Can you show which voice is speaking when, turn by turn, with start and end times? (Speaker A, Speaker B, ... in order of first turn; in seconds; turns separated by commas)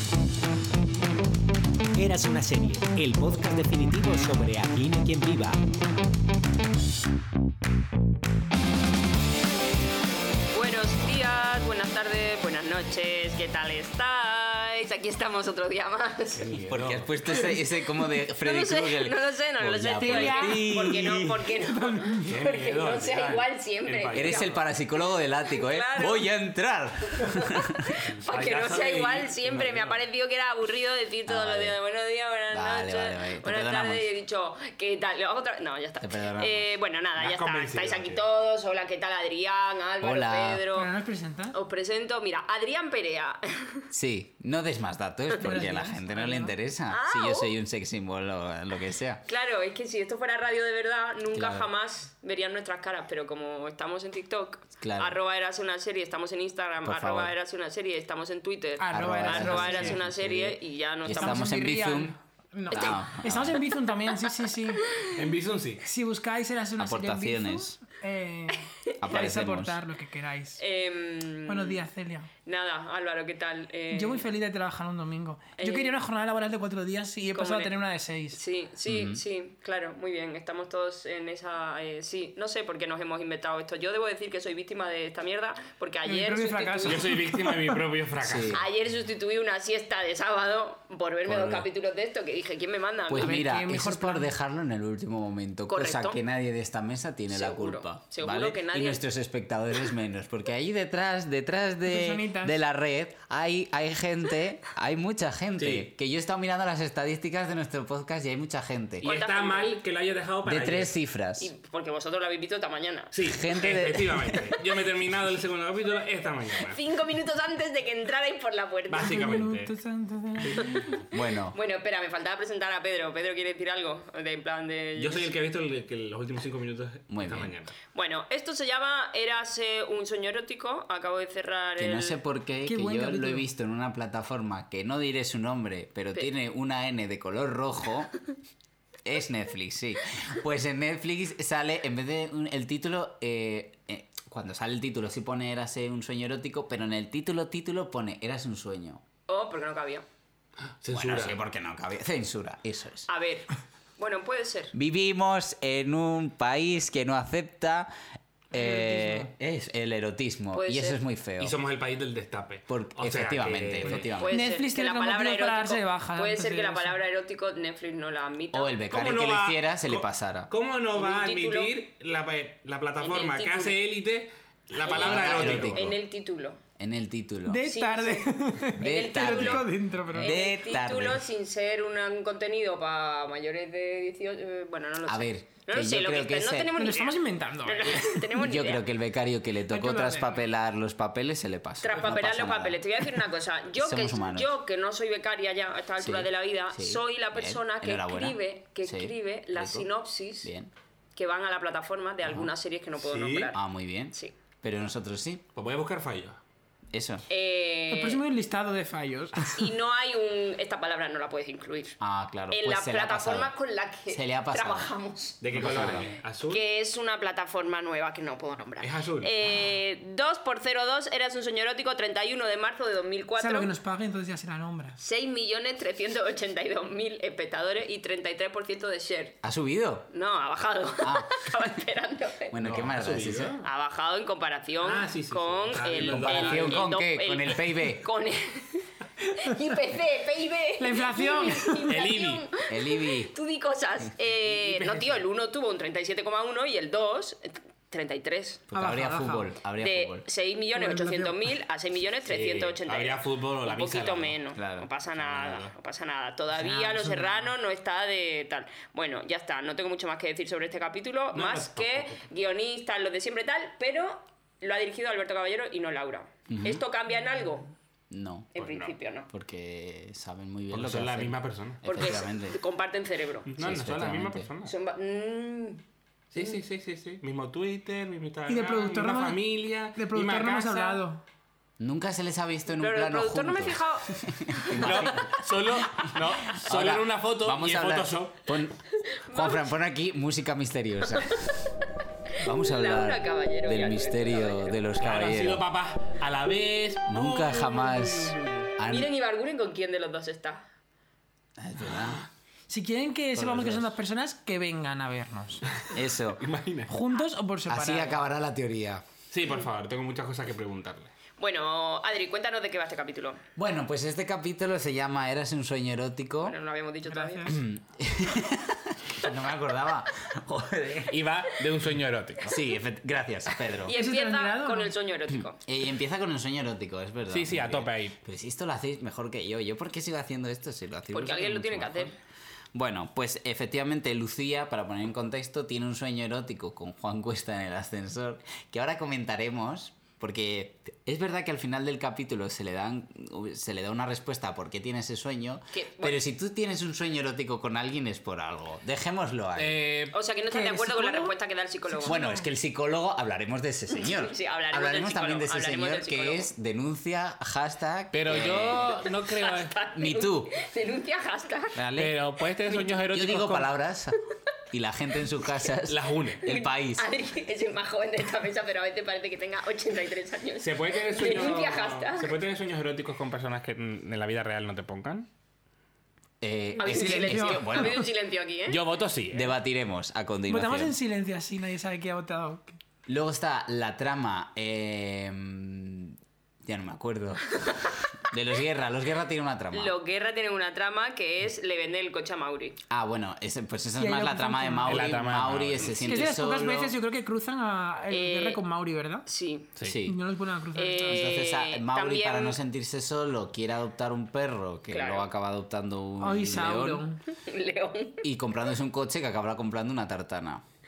Speaker A: 2.0-5.6, Speaker B: 10.5-16.6, Speaker C: 16.3-17.1, Speaker D: 16.7-21.5, Speaker B: 17.3-24.6, Speaker E: 20.0-20.6, Speaker E: 21.7-22.4, Speaker C: 22.2-24.5, Speaker D: 24.1-27.8, Speaker B: 25.6-26.3, Speaker B: 27.2-40.9, Speaker C: 28.1-30.0, Speaker D: 31.3-31.8, Speaker D: 32.5-34.1, Speaker D: 36.0-36.7, Speaker C: 37.2-38.2, Speaker D: 40.0-40.6, Speaker E: 40.7-41.6, Speaker B: 41.5-43.9, Speaker D: 43.9-49.2, Speaker E: 45.3-46.5, Speaker B: 46.9-47.5, Speaker B: 49.3-61.5, Speaker D: 51.3-51.7, Speaker D: 54.8-55.2, Speaker D: 56.8-57.3, Speaker E: 58.8-60.0, Speaker D: 58.9-62.2, Speaker E: 61.1-64.9, Speaker B: 62.7-63.0, Speaker D: 62.7-63.6, Speaker B: 64.1-65.2, Speaker C: 65.0-65.8, Speaker E: 65.8-70.6, Speaker D: 66.8-67.8, Speaker D: 69.0-69.8, Speaker B: 70.6-71.8, Speaker E: 71.5-72.3, Speaker B: 72.5-74.2, Speaker E: 73.9-78.4, Speaker B: 75.6-76.0, Speaker B: 77.3-77.8, Speaker B: 78.3-87.1, Speaker D: 78.9-79.2, Speaker E: 86.1-87.8, Speaker C: 86.8-88.6, Speaker D: 88.2-88.7, Speaker B: 88.5-93.5, Speaker D: 91.3-91.7, Speaker D: 93.1-109.1, Speaker E: 93.2-94.3, Speaker B: 95.7-96.2, Speaker B: 97.3-99.0, Speaker E: 101.9-102.6, Speaker C: 105.6-105.9, Speaker C: 109.0-110.9, Speaker B: 109.0-109.8, Speaker D: 110.5-111.5, Speaker B: 111.4-113.1, Speaker C: 113.1-116.8, Speaker D: 113.2-114.5, Speaker B: 116.6-119.3, Speaker C: 118.9-119.8, Speaker E: 119.0-121.0, Speaker C: 120.4-120.9, Speaker D: 121.1-121.6, Speaker B: 121.5-125.3, Speaker C: 125.0-127.8, Speaker D: 127.1-127.5, Speaker B: 127.9-132.2, Speaker D: 131.8-138.1, Speaker E: 132.7-133.5, Speaker D: 139.1-149.0, Speaker B: 149.3-150.1, Speaker C: 150.7-151.4, Speaker D: 150.9-153.1, Speaker B: 153.1-154.7, Speaker D: 154.7-157.9, Speaker D: 158.5-161.6, Speaker E: 158.5-159.3, Speaker B: 160.5-161.0, Speaker C: 161.4-164.1, Speaker D: 162.7-164.4, Speaker E: 163.8-167.0, Speaker B: 164.1-168.7, Speaker D: 168.5-170.5, Speaker C: 168.9-175.9, Speaker B: 170.9-171.7, Speaker B: 173.0-173.8, Speaker B: 174.8-176.6, Speaker D: 174.8-176.0, Speaker D: 176.8-177.7, Speaker E: 177.5-180.3, Speaker B: 177.7-188.8, Speaker D: 178.8-181.3, Speaker D: 185.1-186.7, Speaker E: 186.8-188.3, Speaker D: 188.3-192.8, Speaker E: 189.7-190.3, Speaker B: 191.8-200.5, Speaker D: 193.8-194.5, Speaker D: 196.0-199.9, Speaker D: 200.4-200.7, Speaker B: 201.2-203.6, Speaker D: 202.2-202.5, Speaker C: 203.0-203.5, Speaker D: 203.5-205.4, Speaker C: 205.6-206.4, Speaker D: 206.9-207.3, Speaker B: 207.3-208.2, Speaker E: 207.9-209.7, Speaker B: 209.5-212.0, Speaker D: 212.0-213.5, Speaker B: 212.5-223.7, Speaker D: 214.1-214.9, Speaker C: 215.4-216.6, Speaker D: 215.5-216.1, Speaker C: 218.8-219.5, Speaker E: 223.4-225.0, Speaker B: 225.0-229.4, Speaker D: 229.4-230.1, Speaker B: 230.1-232.6, Speaker D: 231.0-231.7, Speaker D: 232.5-233.6, Speaker C: 232.6-233.6, Speaker B: 233.6-248.6, Speaker C: 234.8-236.9, Speaker D: 236.0-238.1, Speaker E: 240.8-241.9, Speaker C: 241.8-242.5, Speaker D: 242.7-243.3, Speaker C: 244.5-245.2, Speaker D: 248.7-250.2, Speaker E: 248.7-249.5, Speaker B: 249.8-267.7, Speaker E: 250.8-251.4, Speaker C: 252.3-254.4, Speaker D: 254.6-254.9, Speaker C: 255.2-255.7, Speaker E: 256.5-257.5, Speaker C: 261.3-262.2, Speaker D: 266.5-266.8, Speaker D: 268.1-268.5, Speaker B: 268.6-269.3, Speaker C: 268.6-268.9, Speaker D: 269.3-272.6, Speaker C: 270.7-271.8, Speaker B: 271.8-273.5, Speaker C: 273.5-274.7, Speaker D: 273.6-274.5, Speaker B: 274.7-275.8, Speaker C: 276.3-281.0, Speaker E: 278.5-281.2, Speaker D: 281.8-285.3, Speaker B: 282.7-285.4, Speaker C: 284.8-288.5, Speaker D: 286.0-291.4, Speaker B: 289.0-289.7, Speaker B: 291.2-291.5, Speaker D: 292.4-295.6, Speaker B: 292.6-294.8, Speaker C: 295.0-298.7, Speaker D: 297.1-299.1, Speaker B: 298.8-300.7, Speaker D: 301.6-302.2, Speaker E: 302.7-305.6, Speaker D: 303.3-303.9, Speaker D: 305.9-306.4, Speaker C: 306.4-306.9, Speaker E: 306.9-308.2, Speaker D: 307.7-309.1, Speaker C: 309.3-311.1, Speaker B: 311.4-313.4, Speaker D: 313.6-316.6, Speaker B: 316.4-317.6, Speaker E: 317.1-317.6, Speaker D: 317.5-321.2, Speaker C: 321.1-322.6, Speaker D: 322.4-323.9, Speaker B: 323.8-325.6, Speaker E: 323.9-324.9, Speaker D: 325.6-332.2, Speaker C: 327.3-328.2, Speaker B: 331.1-332.1, Speaker D: 332.7-349.8, Speaker B: 345.7-346.2, Speaker C: 349.6-350.2, Speaker B: 350.1-352.2, Speaker E: 350.5-351.4, Speaker E: 351.9-352.4, Speaker D: 352.0-359.1, Speaker B: 353.9-356.5, Speaker C: 358.1-359.8, Speaker B: 358.6-361.8, Speaker D: 359.9-360.6, Speaker D: 361.8-362.2, Speaker C: 362.0-363.7, Speaker D: 363.0-364.2, Speaker D: 364.7-367.1, Speaker C: 365.9-366.4, Speaker B: 366.4-372.4, Speaker C: 370.6-375.3, Speaker D: 376.4-378.1, Speaker B: 376.8-378.8, Speaker E: 376.8-378.0, Speaker C: 378.7-379.5, Speaker D: 379.3-380.9, Speaker E: 380.5-382.8, Speaker D: 383.1-389.9, Speaker B: 389.7-392.8, Speaker D: 392.9-396.9, Speaker E: 394.0-395.2, Speaker C: 394.9-396.2, Speaker E: 396.0-399.3, Speaker B: 398.1-398.6, Speaker B: 399.3-399.7, Speaker D: 399.8-400.2, Speaker E: 400.0-401.3, Speaker B: 400.8-402.6, Speaker D: 401.1-407.1, Speaker B: 404.9-405.3, Speaker E: 406.2-407.2, Speaker B: 407.3-408.2, Speaker D: 408.2-410.6